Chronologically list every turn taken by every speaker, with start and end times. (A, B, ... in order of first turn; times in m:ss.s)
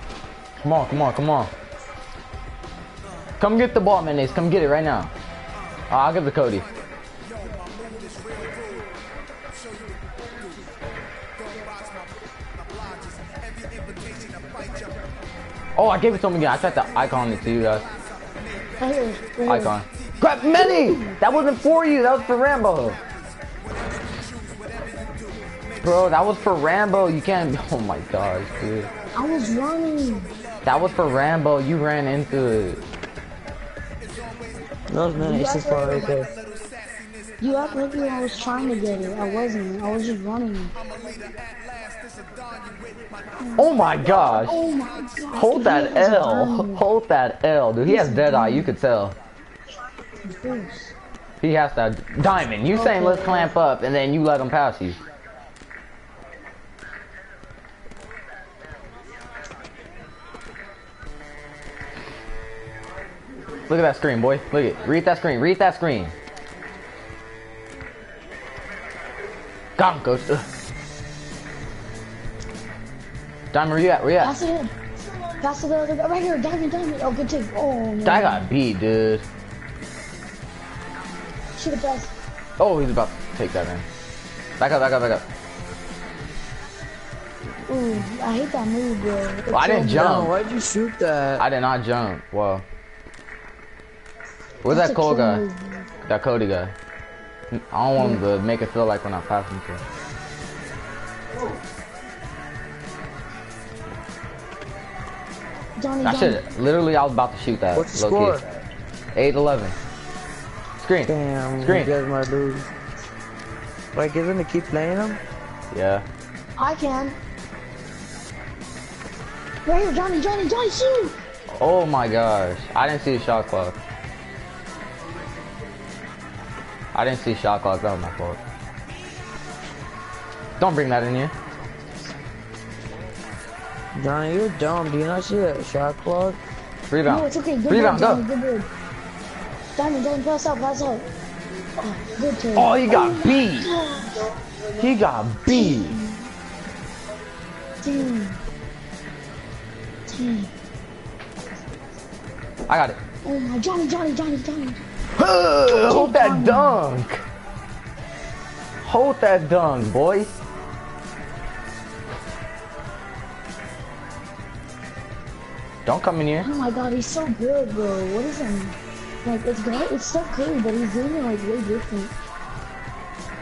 0:00.6-0:01.5 A
0:03.4-0:05.1 A
0:05.9-0:06.7 A
0:15.8-0:17.9 A
0:18.8-0:19.8 B
0:19.5-0:23.0 A
0:20.5-0:21.2 B
0:25.8-0:28.9 A
0:29.1-0:30.3 B
0:30.6-0:32.8 A
0:34.9-0:36.3 C
0:35.2-0:36.1 B
0:37.4-0:40.7 B
0:43.4-0:46.8 B
0:43.6-0:44.6 A
0:45.3-0:49.2 A
0:47.8-0:48.7 B
0:50.2-0:50.9 B
0:51.4-0:55.0 A
0:52.7-0:53.5 B
1:03.7-1:06.1 A
1:09.8-1:10.4 A
1:13.5-1:14.3 A
1:14.2-1:14.7 B
1:15.4-1:18.5 B
1:18.0-1:19.2 A
1:21.6-1:22.1 B
1:22.6-1:23.8 A
1:24.6-1:25.2 A
1:27.7-1:30.1 B
1:29.5-1:30.3 A
1:29.9-1:31.4 C
1:31.4-1:32.6 A
1:34.6-1:35.4 A
1:34.7-1:35.9 B
1:36.0-1:36.7 A
1:37.5-1:39.8 A
1:45.8-1:46.4 B
1:46.0-1:48.6 A
1:47.7-1:48.4 C
1:49.1-1:49.7 A
1:50.8-1:51.9 A
1:51.1-1:52.7 C
1:53.9-1:55.2 C
1:55.7-1:56.0 A
1:56.6-1:57.2 B
1:59.6-2:01.2 B
2:01.5-2:03.8 A
2:06.9-2:08.4 A
2:10.6-2:11.3 A
2:13.9-2:16.4 C
2:16.9-2:18.2 A
2:17.0-2:18.7 B
2:19.8-2:21.0 B
2:21.8-2:24.3 B
2:22.5-2:23.7 A
2:24.8-2:26.0 A
2:25.5-2:26.3 B
2:27.8-2:28.4 B
2:30.1-2:30.5 B
2:32.7-2:33.0 A
2:33.2-2:34.8 B
2:35.2-2:37.2 A
2:35.6-2:36.8 B
2:38.8-2:40.3 A
2:45.8-2:46.5 A
2:46.4-2:52.1 B